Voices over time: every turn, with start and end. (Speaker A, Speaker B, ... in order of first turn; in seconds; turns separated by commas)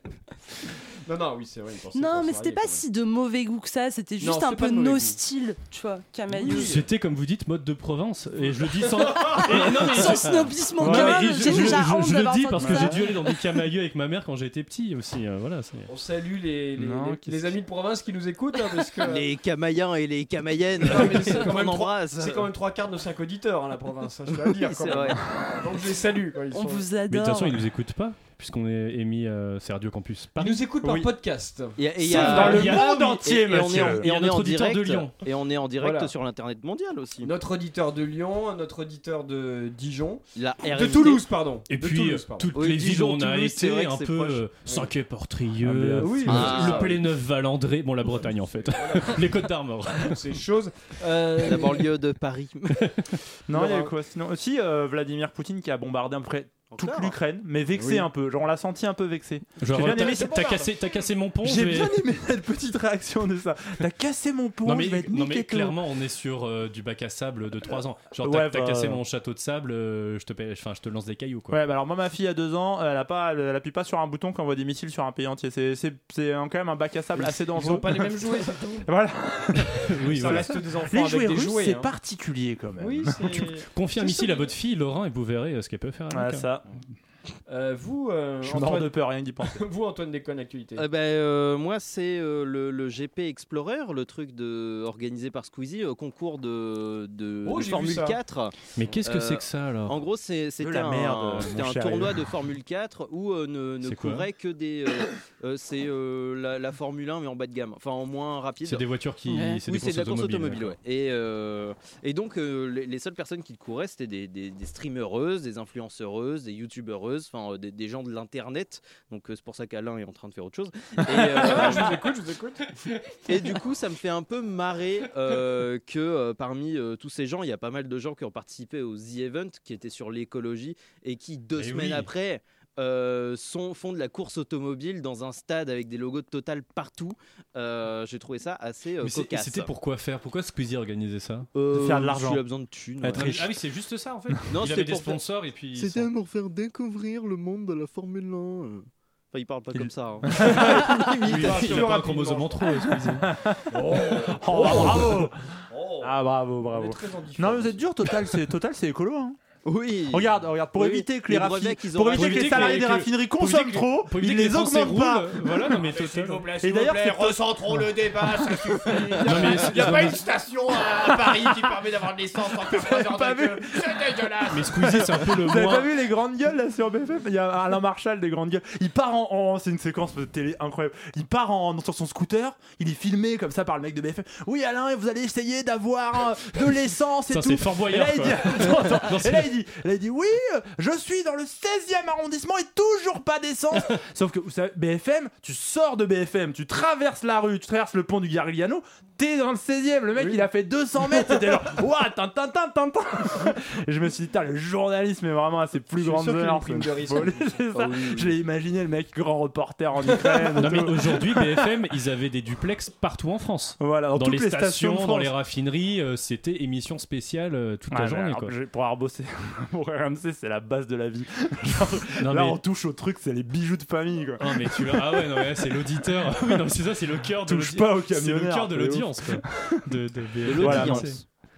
Speaker A: 1.1-2.8, Speaker B: 1.9-6.8, Speaker A: 4.2-5.2, Speaker A: 6.3-6.8, Speaker C: 6.4-15.9, Speaker B: 9.1-13.2, Speaker D: 10.8-11.8, Speaker D: 12.6-13.0, Speaker A: 15.9-19.2, Speaker D: 16.8-17.6, Speaker E: 19.0-22.5, Speaker A: 20.8-26.9, Speaker E: 24.4-25.2, Speaker B: 26.5-27.6, Speaker C: 27.1-30.6, Speaker A: 30.4-32.8, Speaker D: 30.8-31.1, Speaker E: 31.8-37.3, Speaker D: 32.0-34.1, Speaker C: 32.1-35.1, Speaker A: 35.8-36.1, Speaker A: 37.2-42.5, Speaker E: 40.3-41.2, Speaker C: 41.7-50.2, Speaker E: 42.5-44.4, Speaker D: 45.6-46.6, Speaker A: 46.0-47.0, Speaker E: 46.3-47.0, Speaker A: 48.1-49.2, Speaker A: 50.0-51.8, Speaker E: 51.4-52.9, Speaker D: 53.5-60.7, Speaker A: 53.5-53.9, Speaker E: 56.7-57.1, Speaker A: 57.7-58.0, Speaker C: 59.6-62.0, Speaker D: 61.4-65.8, Speaker C: 64.6-71.6, Speaker D: 68.2-69.0, Speaker D: 71.5-83.5, Speaker A: 77.2-78.9, Speaker C: 79.9-80.5, Speaker A: 80.1-81.9, Speaker A: 82.8-84.5, Speaker C: 83.7-86.5, Speaker D: 86.1-86.6, Speaker A: 87.5-88.9, Speaker D: 88.4-89.6, Speaker A: 89.5-90.8, Speaker E: 90.8-108.8, Speaker A: 97.4-98.2, Speaker C: 98.8-100.0, Speaker D: 100.6-102.2, Speaker C: 103.8-104.3, Speaker C: 108.6-110.8, Speaker B: 109.3-109.6, Speaker E: 109.7-122.0, Speaker A: 121.1-122.7, Speaker E: 123.3-139.7, Speaker C: 131.5-132.1, Speaker C: 139.0-141.5, Speaker E: 141.5-143.4, Speaker D: 141.7-142.4, Speaker D: 143.0-143.5, Speaker C: 143.1-146.1, Speaker E: 144.5-145.2, Speaker E: 149.3-151.9, Speaker D: 149.7-151.2, Speaker C: 151.2-153.3, Speaker A: 151.2-152.7, Speaker D: 153.2-155.3, Speaker A: 153.7-157.8, Speaker D: 156.0-159.4, Speaker E: 159.6-162.9, Speaker D: 160.1-165.7, Speaker C: 162.1-166.5, Speaker A: 165.8-174.6, Speaker D: 166.6-170.0, Speaker C: 169.2-170.2, Speaker D: 172.5-211.7, Speaker C: 174.5-175.9, Speaker C: 187.3-189.5, Speaker A: 200.2-200.4, Speaker A: 201.2-201.5, Speaker A: 206.0-208.3, Speaker C: 210.6-218.5, Speaker D: 213.8-215.3, Speaker D: 217.9-225.4, Speaker C: 222.2-222.6, Speaker C: 224.4-231.2, Speaker D: 226.2-226.7, Speaker D: 227.4-229.8, Speaker E: 230.4-231.2, Speaker D: 230.5-231.1